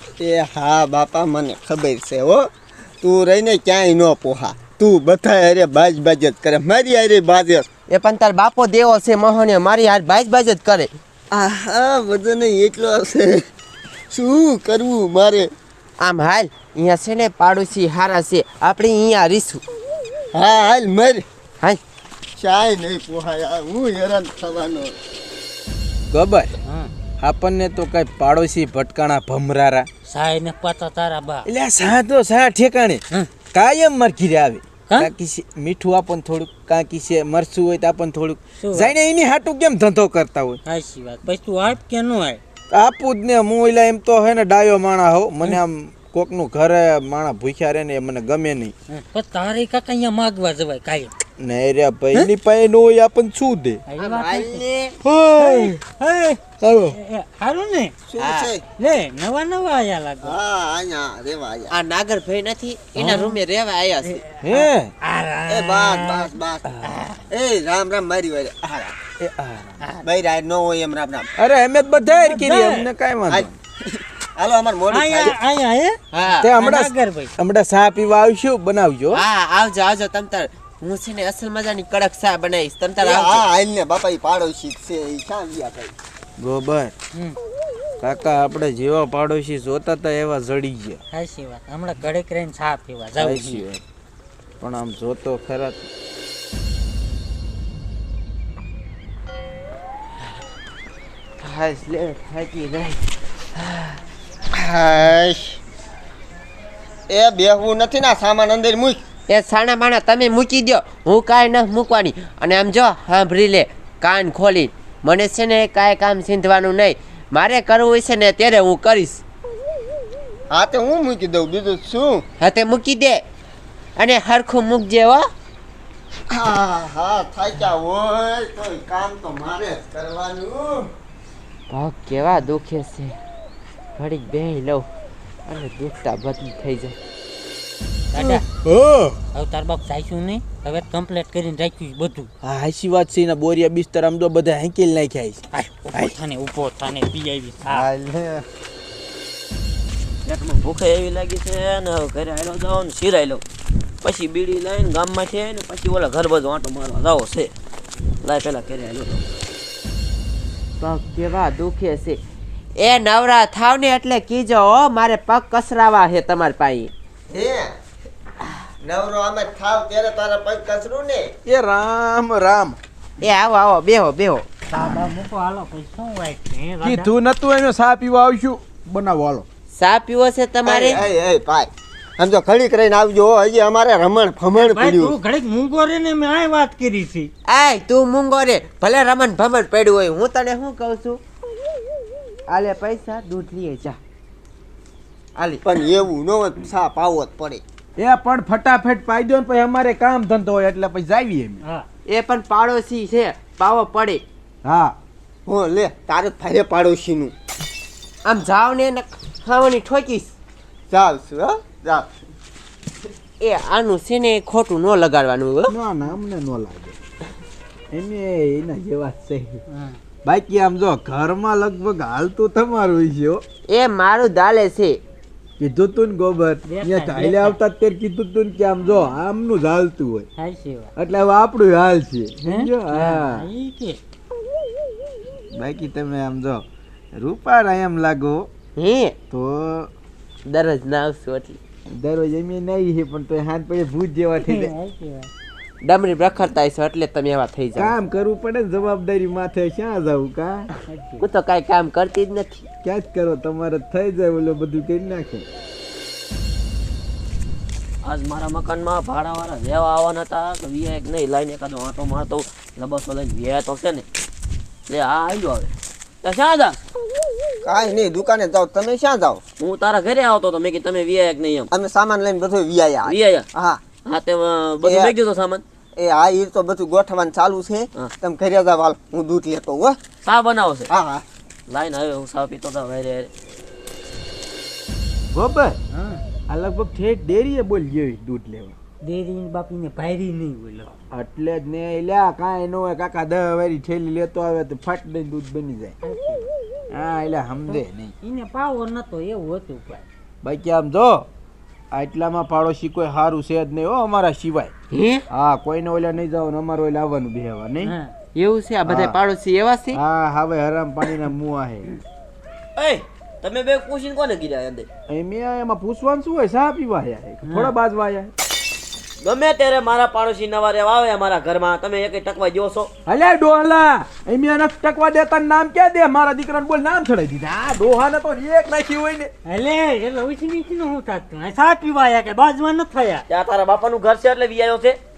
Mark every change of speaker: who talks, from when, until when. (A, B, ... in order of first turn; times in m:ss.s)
0:00.2-0:02.5 A
0:03.0-0:07.7 A
0:07.9-0:10.9 B
0:11.3-0:13.4 A
0:14.1-0:15.5 A
0:16.0-0:19.6 B
0:20.3-0:21.2 A
0:22.4-0:25.0 A
0:26.1-0:26.6 C
0:26.6-0:26.9 D
0:27.2-0:29.9 C
0:30.1-0:31.5 D
0:31.4-0:40.6 C
0:34.9-0:35.1 D
0:38.6-0:38.9 D
0:40.6-0:42.4 D
0:42.7-0:48.7 C
0:48.9-0:51.1 D
0:51.4-0:53.8 C
0:53.9-0:54.6 D
0:54.0-0:55.0 B
0:55.0-0:55.8 C
0:55.4-0:58.0 D
0:56.6-0:57.0 C
0:58.1-0:58.6 A
0:58.2-0:58.5 B
0:58.8-1:00.4 D
1:00.2-1:01.7 A
1:01.7-1:04.2 B
1:03.0-1:03.4 D
1:04.1-1:06.3 D
1:04.4-1:04.9 C
1:05.5-1:06.6 A
1:06.6-1:07.0 C
1:06.9-1:07.2 D
1:07.3-1:09.0 A
1:09.2-1:09.8 C
1:10.0-1:11.3 A
1:11.4-1:13.6 C
1:11.9-1:12.9 D
1:13.3-1:15.4 A
1:14.9-1:17.3 D
1:16.1-1:16.5 B
1:16.4-1:19.2 C
1:19.1-1:23.5 B
1:23.0-1:25.9 A
1:26.4-1:26.9 C
1:27.1-1:27.4 D
1:28.0-1:31.0 C
1:31.1-1:33.6 D
1:33.2-1:33.8 C
1:34.6-1:35.9 C
1:41.4-1:44.0 B
1:44.5-1:45.6 A
1:47.1-1:49.0 A
1:49.3-1:59.2 B
2:00.5-2:02.2 A
2:02.4-2:03.2 B
2:04.0-2:05.3 B
2:06.3-2:10.9 A
2:11.7-2:13.2 B
2:14.0-2:14.9 B
2:15.5-2:17.0 B
2:18.1-2:18.4 D
2:18.2-2:19.2 C
2:19.3-2:22.3 D
2:22.4-2:26.2 C
2:25.5-2:27.9 D
2:27.6-2:28.4 C
2:30.2-2:33.4 E
2:34.0-2:37.5 E
2:38.2-2:39.4 E
2:40.8-2:42.2 B
2:42.8-2:46.9 B
2:47.3-2:47.7 A
2:48.8-2:51.3 A
2:51.4-2:52.8 C
2:53.2-2:54.5 B
2:54.7-2:57.1 D
2:56.8-2:59.4 C
2:59.8-3:01.0 B
3:00.6-3:05.2 A
3:04.5-3:07.3 D
3:07.5-3:11.2 B
3:12.5-3:14.0 B
3:15.4-3:15.6 B
3:15.6-3:17.6 A
3:18.0-3:21.6 C
3:22.1-3:24.2 B
3:24.6-3:25.0 C
3:25.5-3:27.3 A
3:28.2-3:30.3 B
3:30.9-3:32.1 A
3:33.4-3:35.8 B
3:35.7-3:37.0 C
3:37.9-3:39.6 C
3:39.7-3:40.0 D
3:40.2-3:43.4 C
3:43.7-3:45.0 B
3:45.6-3:50.3 C
3:46.7-3:47.6 D
3:50.4-3:50.9 D
3:51.0-3:53.4 C
3:52.4-3:54.0 D
3:55.5-3:56.6 C
3:57.2-3:58.5 C
3:58.8-3:59.2 B
3:59.3-3:59.9 C
4:00.5-4:01.6 B
4:01.9-4:04.7 C
4:04.4-4:05.3 D
4:05.8-4:08.0 B
4:07.8-4:10.7 C
4:10.9-4:11.3 D
4:11.2-4:12.7 B
4:12.8-4:15.5 C
4:18.0-4:24.0 E
4:24.9-4:25.7 E
4:26.2-4:26.8 E
4:27.6-4:29.4 A
4:29.6-4:31.7 E
4:31.7-4:33.8 A
4:33.0-4:33.5 E
4:34.0-4:35.6 E
4:34.8-4:35.1 A
4:36.0-4:40.0 A
4:40.2-4:40.9 E
4:40.9-4:41.2 A
4:41.7-4:43.3 E
4:45.3-4:45.8 C
4:45.9-4:46.2 D
4:46.5-4:48.8 C
4:49.0-4:50.9 D
4:51.1-4:56.0 C
4:56.0-4:56.5 D
4:56.9-4:58.1 C
4:57.7-5:00.0 D
5:00.4-5:01.3 C
5:01.9-5:04.7 C
5:04.9-5:05.2 B
5:05.3-5:07.9 C
5:07.8-5:08.1 D
5:08.3-5:10.0 B
5:08.9-5:09.2 C
5:09.9-5:11.9 C
5:12.8-5:14.9 E
5:15.1-5:18.3 C
5:17.4-5:17.7 D
5:19.2-5:22.9 E
5:23.1-5:29.3 C
5:29.4-5:33.3 D
5:33.3-5:35.0 E